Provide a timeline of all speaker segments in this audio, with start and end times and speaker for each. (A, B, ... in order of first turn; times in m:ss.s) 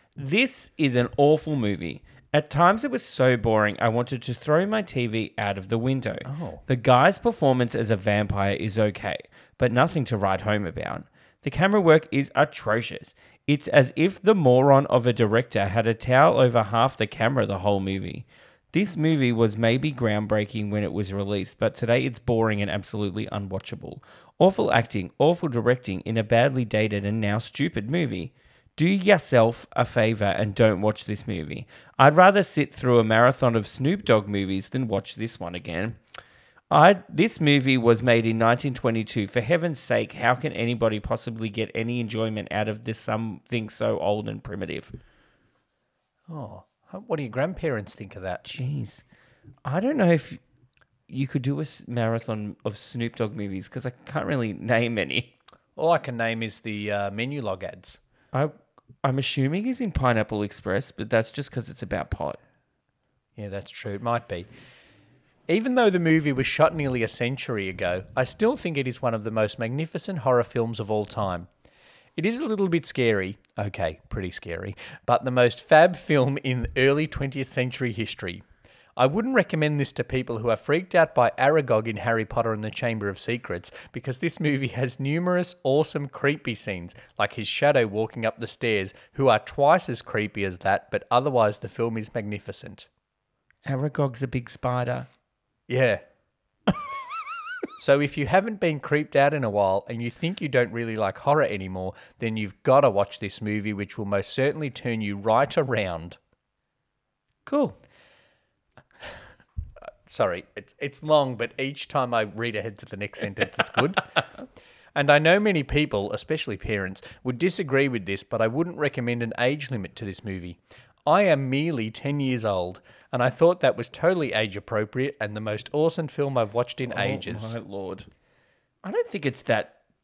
0:00.2-0:36.0 A
0:06.2-0:06.6 B
0:36.7-0:44.9 A
0:46.3-0:48.5 B
0:48.4-0:49.0 A
0:49.6-0:50.4 A
0:51.1-0:55.3 A
0:55.8-0:58.0 B
0:58.3-1:02.4 A
1:03.4-1:04.5 B
1:05.5-1:11.5 B
1:12.2-1:18.4 B
1:19.0-1:32.9 B
1:33.6-1:35.1 A
1:35.7-1:36.0 B
1:37.8-1:46.2 B
1:47.4-1:47.8 A
1:50.1-1:54.2 B
1:55.0-2:07.6 B
2:06.9-2:08.1 A
2:08.8-2:09.8 A